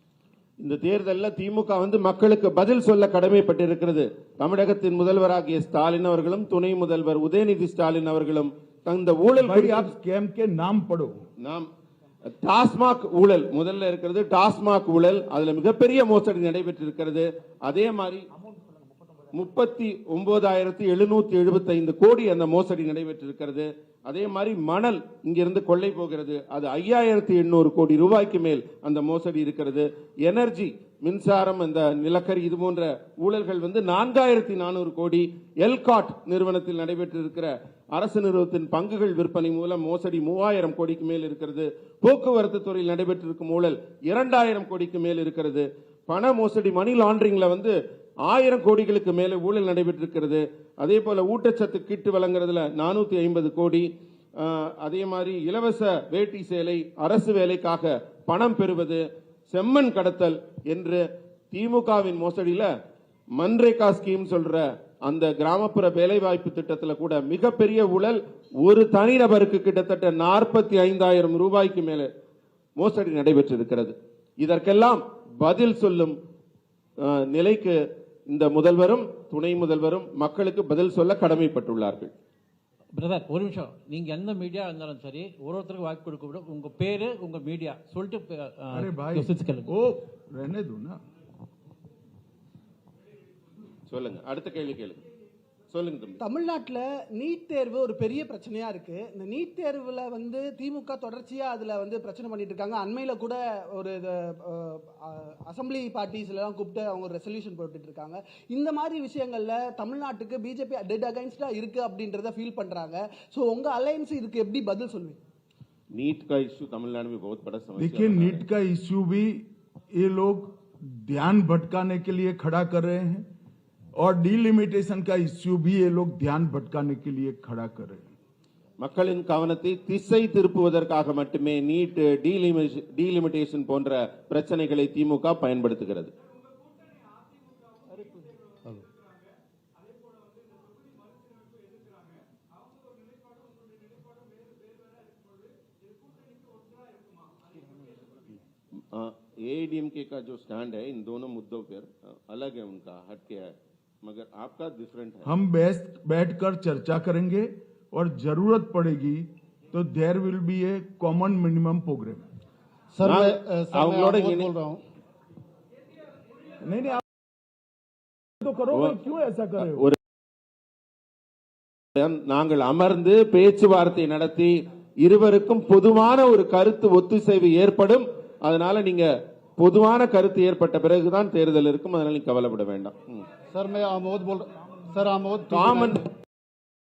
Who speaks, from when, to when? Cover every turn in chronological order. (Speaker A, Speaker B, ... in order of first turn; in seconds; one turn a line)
Speaker A: 0.6-9.9
Speaker B: 9.4-11.2
Speaker A: 11.4-11.7
Speaker A: 12.2-18.3
Speaker A: 19.3-47.8
Speaker A: 48.3-62.7
Speaker A: 63.4-72.1
Speaker A: 72.8-76.2
Speaker A: 77.0-82.1
Speaker C: 83.0-89.7
Speaker B: 88.7-91.0
Speaker A: 93.9-95.0
Speaker A: 95.7-96.2
Speaker D: 96.2-115.2
Speaker A: 115.9-118.4
Speaker B: 117.8-123.3
Speaker B: 124.0-128.1
Speaker A: 128.8-136.1
Speaker A: 148.8-155.3
Speaker B: 155.2-162.2
Speaker E: 162.9-164.8
Speaker A: 163.0-164.5
Speaker B: 166.6-167.0
Speaker B: 168.4-169.8
Speaker A: 172.0-183.3
Speaker E: 183.5-186.0
Speaker A: 185.5-186.1